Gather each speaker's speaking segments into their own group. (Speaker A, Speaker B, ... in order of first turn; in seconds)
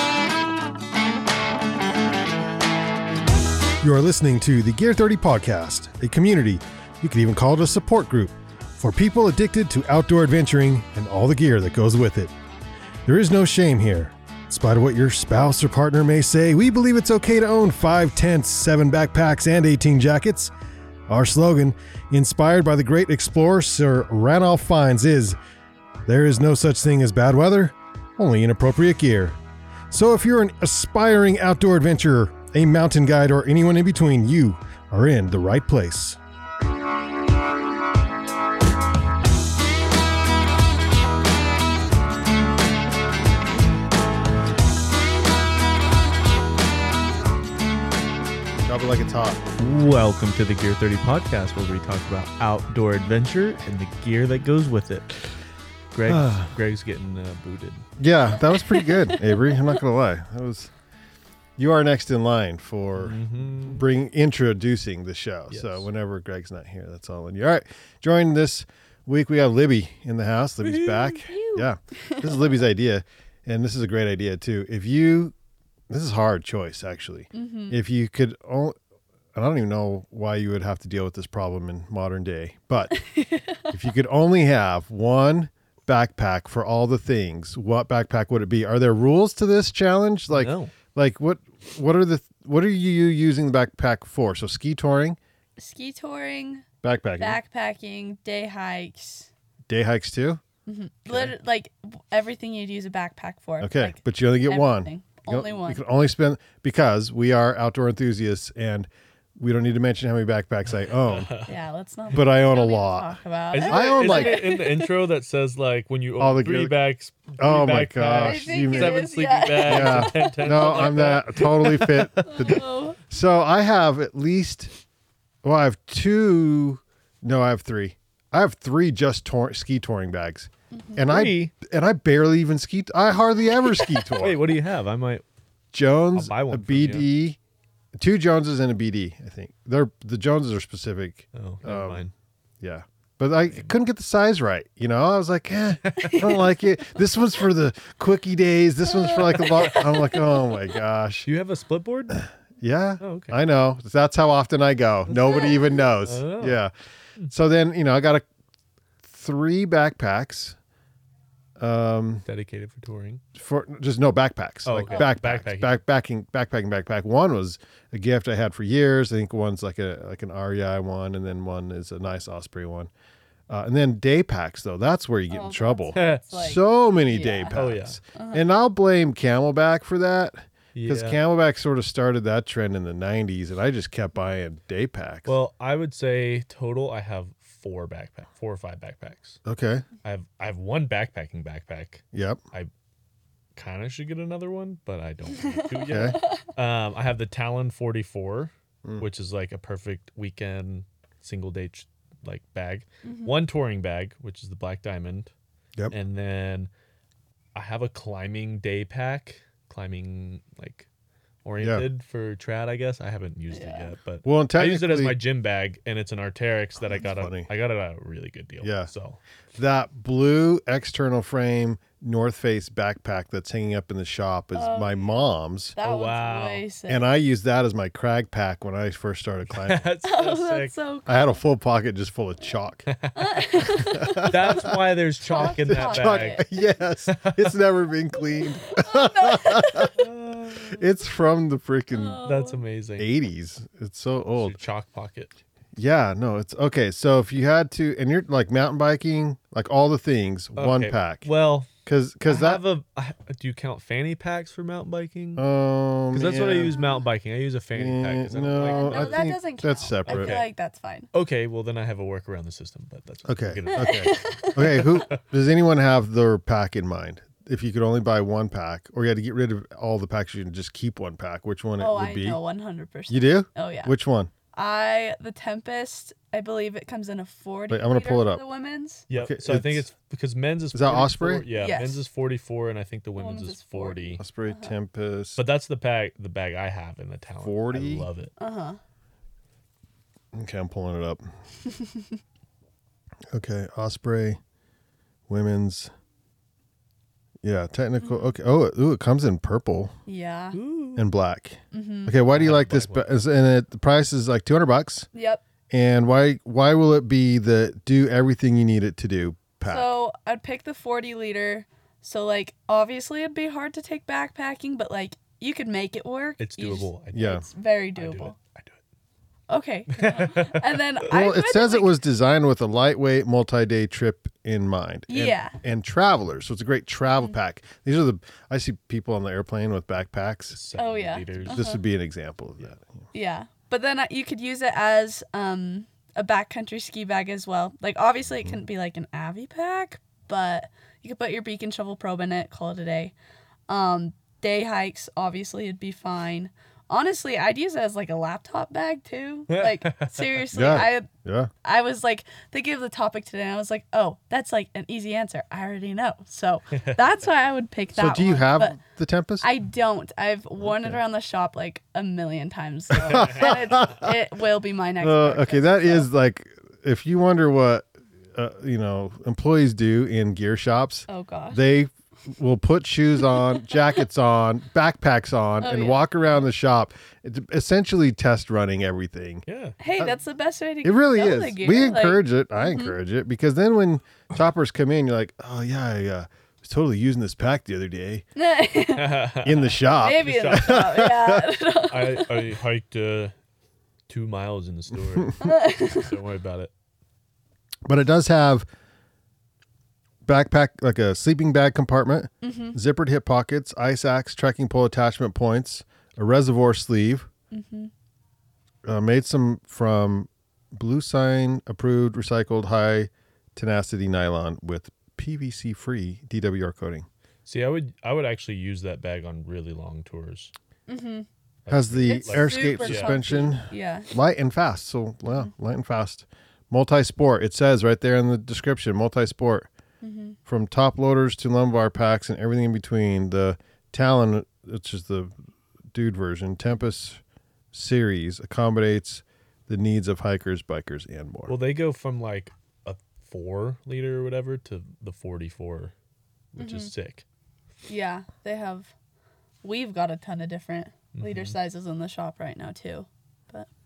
Speaker A: 3.8-12.3, 13.1-20.5, 21.1-25.4, 26.1-29.4, 29.9-36.2, 48.6-49.4, 56.1-56.5, 58.0-60.7, 61.6-75.3, 75.9-78.8, 79.3-83.0, 83.6-95.2, 96.8-97.4, 99.7-100.4, 101.1-101.3, 103.6-111.3, 112.1-114.5, 116.2-116.8, 117.4-124.7, 125.4-134.5, 135.7-137.4, 138.0-142.1, 142.6-151.3, 152.6-156.7, 157.3-158.2, 159.0-160.6, 161.6-162.2, 163.3-172.9, 173.5-185.3, 189.5-189.9, 192.1-192.4, 195.9-196.2, 211.6-211.9, 214.2-215.2, 216.9-217.5, 218.6-218.9, 219.6-225.8, 226.9-229.9, 231.1-232.9, 233.9-234.7, 235.4-239.9, 240.7-242.2, 243.0-244.6, 245.8-251.3, 251.8-252.6, 255.4-256.8, 257.8-260.4, 263.3-272.4, 273.1-274.3, 277.7-278.4, 279.1-279.9, 280.7-281.4, 284.2-285.4, 287.4-288.1, 290.3-291.2, 293.3-294.4, 295.3-295.9, 297.4-299.9, 301.0-305.1, 305.7-309.9, 317.1-317.4, 321.1-330.6, 331.5-333.0, 350.5-351.5, 357.9-359.5, 360.6-361.0, 362.9-364.1, 365.0-380.1, 380.8-388.2, 389.4-391.5, 397.9-398.7, 400.3-407.3, 408.9-417.1, 421.7-429.7, 430.5-435.3, 435.9-437.2, 437.7-441.6
Speaker B: 49.6-55.1, 55.9-57.9, 63.0-63.9, 65.5-65.9, 70.6-71.2, 90.3-90.7, 110.8-111.5, 113.5-122.6, 131.1-131.5, 134.1-135.2, 136.1-137.1, 141.3-142.1, 143.5-143.7, 145.7-146.4, 149.3-149.6, 151.3-152.2, 153.0-153.4, 155.1-156.6, 162.3-163.2, 164.7-165.8, 175.9-176.2, 177.5-178.0, 180.7-181.2, 185.3-189.4, 190.0-192.7, 193.6-205.3, 205.9-206.7, 207.6-210.9, 211.4-219.2, 225.8-226.7, 229.5-230.8, 232.9-236.5, 237.1-237.6, 240.0-240.8, 242.2-243.1, 244.3-245.3, 250.6-251.7, 252.2-255.4, 256.1-259.2, 260.1-260.5, 261.1-264.9, 279.1-284.2, 285.4-288.3, 300.5-301.1, 302.3-303.1, 316.4-317.4, 317.9-318.8, 319.9-320.8, 330.5-331.6, 349.5-350.4, 356.7-357.0, 363.0-364.0, 379.5-379.8, 389.0-391.0, 391.9-393.3, 394.1-396.7, 417.5-420.5, 421.6-423.2, 441.5-445.9, 446.5-447.2, 451.1-451.6
Speaker C: 58.5-59.8, 71.1-72.5, 77.3-77.8, 83.0-83.7, 95.6-96.7, 97.2-99.3, 100.7-105.8, 111.5-114.9, 118.2-121.2, 122.2-123.0, 130.7-131.2, 146.1-146.5, 148.8-150.6, 164.9-165.2, 175.3-177.6, 178.1-178.4, 195.4-196.5, 203.0-203.3, 213.5-213.9, 224.5-225.2, 225.8-227.1, 230.1-231.4, 233.2-236.4, 238.4-240.0, 241.9-242.6, 256.7-257.0, 258.5-261.1, 263.8-265.0, 271.8-273.9, 274.5-279.1, 281.5-282.0, 283.2-284.8, 288.4-288.8, 300.1-300.6, 301.7-302.2, 305.1-305.4, 309.6-318.4, 319.5-322.0, 325.1-325.6, 330.8-331.8, 333.1-343.1, 343.7-351.1, 351.6-358.8, 359.4-366.1, 371.1-371.6, 375.6-376.1, 379.8-382.9, 388.4-392.6, 395.4-396.1, 402.4-402.8, 407.5-407.9, 420.9-421.3, 422.0-424.1, 430.0-430.4, 446.6-446.9, 447.9-448.9, 449.6-453.7